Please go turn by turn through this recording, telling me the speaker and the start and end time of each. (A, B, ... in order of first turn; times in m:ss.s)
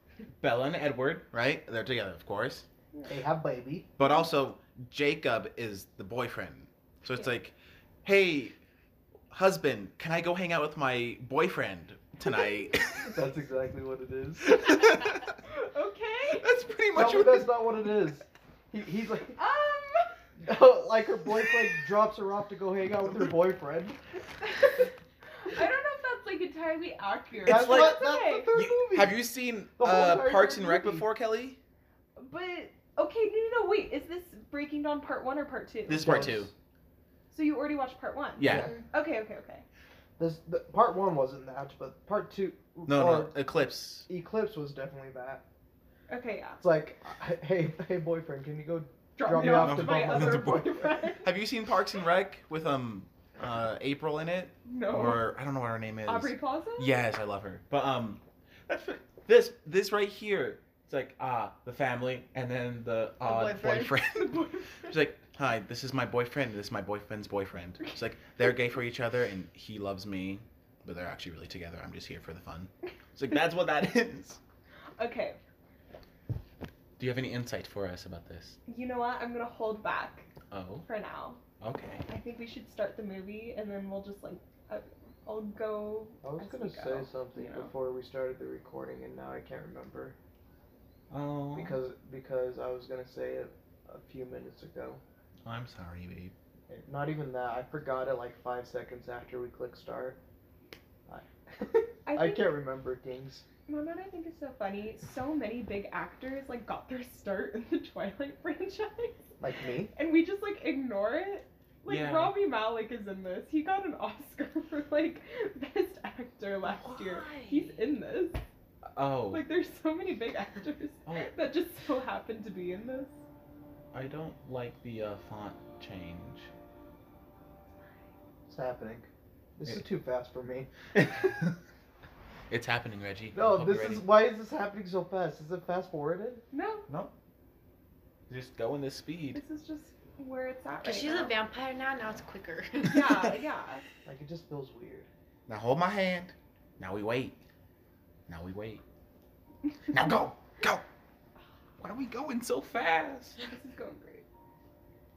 0:00.4-0:02.7 A
0:03.1-0:03.9 B
0:04.0-0:08.6 A
0:09.3-0:13.2 A
0:13.0-0:14.6 B
0:14.4-0:15.3 A
0:15.5-0:16.5 C
0:16.4-0:17.6 A
0:16.9-0:19.4 B
0:19.4-0:20.2 C
0:20.4-0:24.0 B
0:24.5-0:24.9 C
0:25.4-0:28.5 C
0:27.4-0:29.3 B
0:27.4-0:28.0 A
0:28.5-0:31.6 A
0:29.8-0:31.1 B
0:32.2-0:36.4 C
0:35.9-0:36.5 A
0:35.9-0:36.5 B
0:37.3-0:39.6 C
0:38.4-0:38.7 A
0:38.4-0:38.8 B
0:40.2-0:43.4 B
0:42.9-0:44.1 A
0:44.1-0:45.4 B
0:46.1-0:46.6 C
0:46.6-0:50.8 B
0:49.2-0:51.3 C
0:49.6-1:14.4 A
0:54.6-0:55.4 C
0:56.0-0:57.0 C
1:03.2-1:05.0 C
1:15.0-1:15.4 C
1:17.0-1:18.6 A
1:18.7-1:20.3 C
1:20.5-1:20.9 A
1:20.8-1:21.4 C
1:21.6-1:22.0 A
1:22.1-1:27.7 C
1:26.2-1:30.2 B
1:31.1-1:31.8 A
1:31.6-1:35.0 B
1:35.4-1:36.4 A
1:36.7-1:40.2 B
1:41.1-1:43.5 B
1:42.1-1:42.5 C
1:43.7-1:49.3 C
1:49.4-1:49.9 B
1:49.9-1:58.4 C
1:51.8-1:52.4 A
1:56.7-1:57.8 A
1:58.9-1:59.4 A
1:59.3-2:03.2 C
2:01.1-2:01.4 A
2:03.9-2:06.5 A
2:08.5-2:10.7 B
2:11.0-2:11.6 A
2:12.5-2:14.1 A
2:13.3-2:16.4 B
2:16.5-2:16.9 C
2:16.9-2:17.1 A
2:18.3-2:19.4 A
2:19.3-2:21.4 C
2:20.8-2:23.4 D
2:22.9-2:23.8 C
2:24.0-2:25.1 B
2:25.5-2:27.4 A
2:28.3-2:28.8 A
2:29.9-2:30.8 A
2:31.8-2:33.4 A
2:33.4-2:34.2 C